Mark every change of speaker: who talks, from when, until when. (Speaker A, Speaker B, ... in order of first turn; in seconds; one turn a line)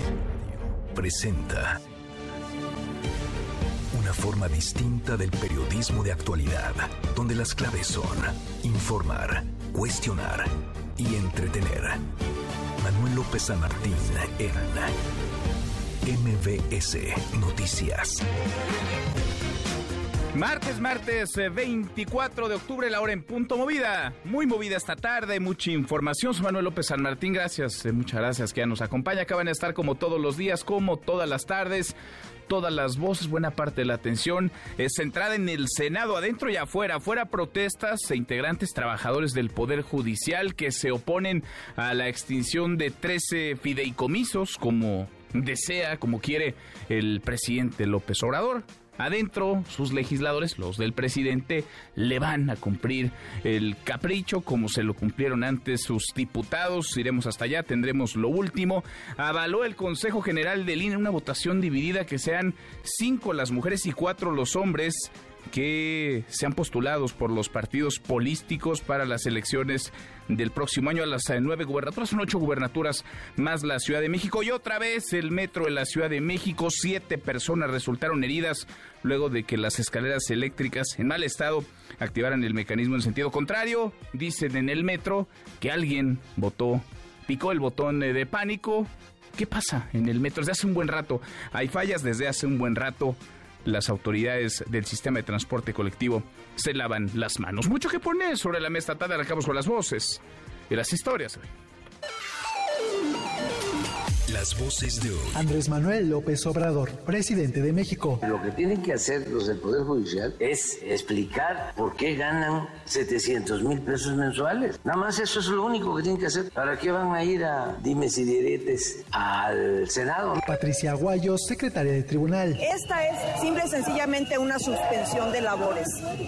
Speaker A: 0.5-1.8
Speaker A: 3.9-12.0
Speaker A: 12.8-15.0
Speaker A: 16.1-18.2
Speaker B: 20.3-32.0
Speaker B: 32.5-101.5
Speaker A: 104.3-105.4
Speaker C: 105.3-108.2
Speaker D: 108.2-120.4
Speaker C: 120.4-122.6
Speaker E: 122.6-126.0